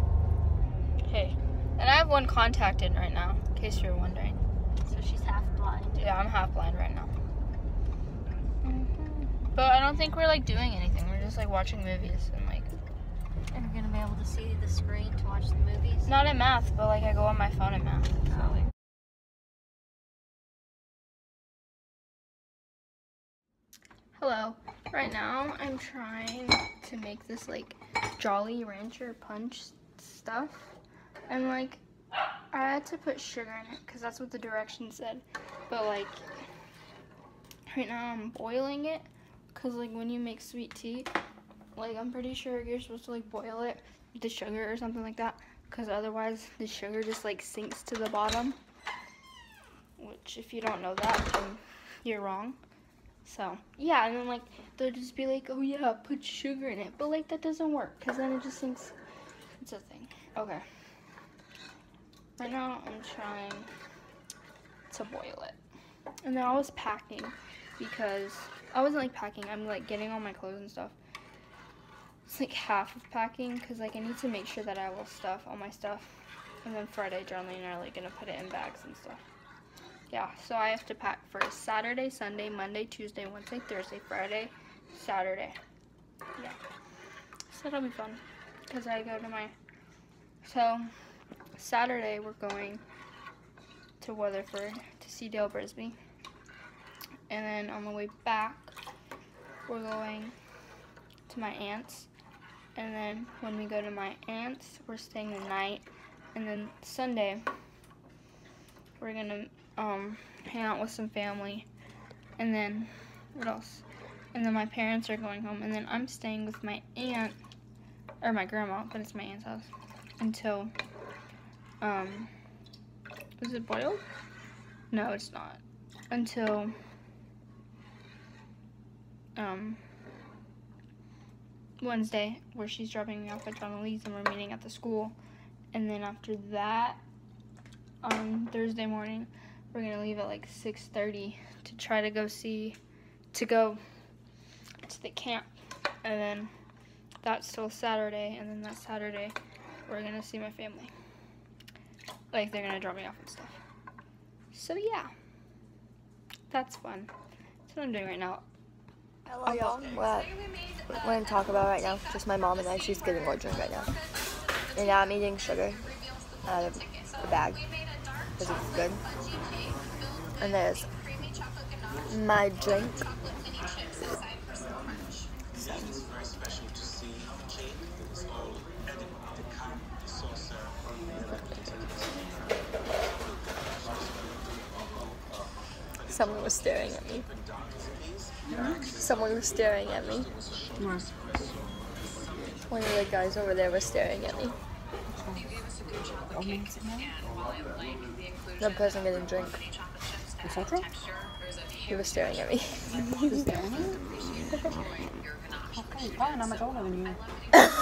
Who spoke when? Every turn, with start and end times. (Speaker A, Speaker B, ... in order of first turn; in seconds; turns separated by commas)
Speaker A: 1.0-4.4, Speaker B: 4.8-6.1, Speaker A: 6.0-7.1, Speaker A: 8.6-12.8, Speaker B: 13.5-16.1, Speaker A: 16.1-18.2, Speaker A: 24.1-30.7, Speaker A: 31.3-31.8, Speaker A: 32.5-36.2, Speaker A: 37.7-41.1, Speaker A: 41.8-48.6, Speaker A: 50.0-52.6, Speaker A: 53.2-58.9, Speaker A: 59.6-60.6, Speaker A: 62.4-63.7, Speaker A: 64.9-65.6, Speaker A: 66.2-70.9, Speaker A: 72.2-76.1, Speaker A: 76.6-79.2, Speaker A: 80.1-85.6, Speaker A: 87.5-89.5, Speaker A: 90.4-90.9, Speaker A: 91.6-92.8, Speaker A: 94.0-96.0, Speaker A: 97.3-98.7, Speaker A: 99.7-100.3, Speaker A: 101.3-102.1, Speaker A: 102.8-107.4, Speaker A: 109.0-111.7, Speaker A: 112.4-113.8, Speaker A: 114.3-117.4, Speaker A: 118.2-119.7, Speaker A: 120.2-120.7, Speaker A: 121.8-122.3, Speaker A: 123.4-124.0, Speaker A: 124.9-126.7, Speaker A: 129.3-129.8, Speaker A: 131.8-135.2, Speaker A: 135.7-137.0, Speaker A: 138.0-142.8, Speaker A: 143.3-143.8, Speaker A: 144.8-145.5, Speaker A: 146.0-146.5, Speaker A: 147.2-150.9, Speaker A: 152.3-153.6, Speaker A: 154.5-155.1, Speaker A: 156.5-157.1, Speaker A: 157.7-158.5, Speaker C: 159.4-160.3, Speaker A: 159.4-159.8, Speaker B: 159.7-159.9, Speaker C: 160.9-163.9, Speaker C: 164.7-165.9, Speaker C: 166.4-167.6, Speaker C: 168.4-169.0, Speaker C: 170.4-170.9, Speaker C: 172.1-173.0, Speaker C: 175.5-175.9, Speaker C: 181.3-182.1, Speaker C: 186.1-187.3, Speaker D: 188.4-188.9, Speaker C: 188.9-190.3, Speaker D: 190.8-191.1, Speaker C: 192.6-194.6, Speaker D: 195.1-195.5, Speaker D: 196.2-197.1, Speaker C: 198.6-199.6, Speaker D: 200.4-200.9, Speaker C: 201.9-203.5, Speaker D: 202.9-204.9, Speaker C: 204.4-204.7, Speaker D: 205.7-207.2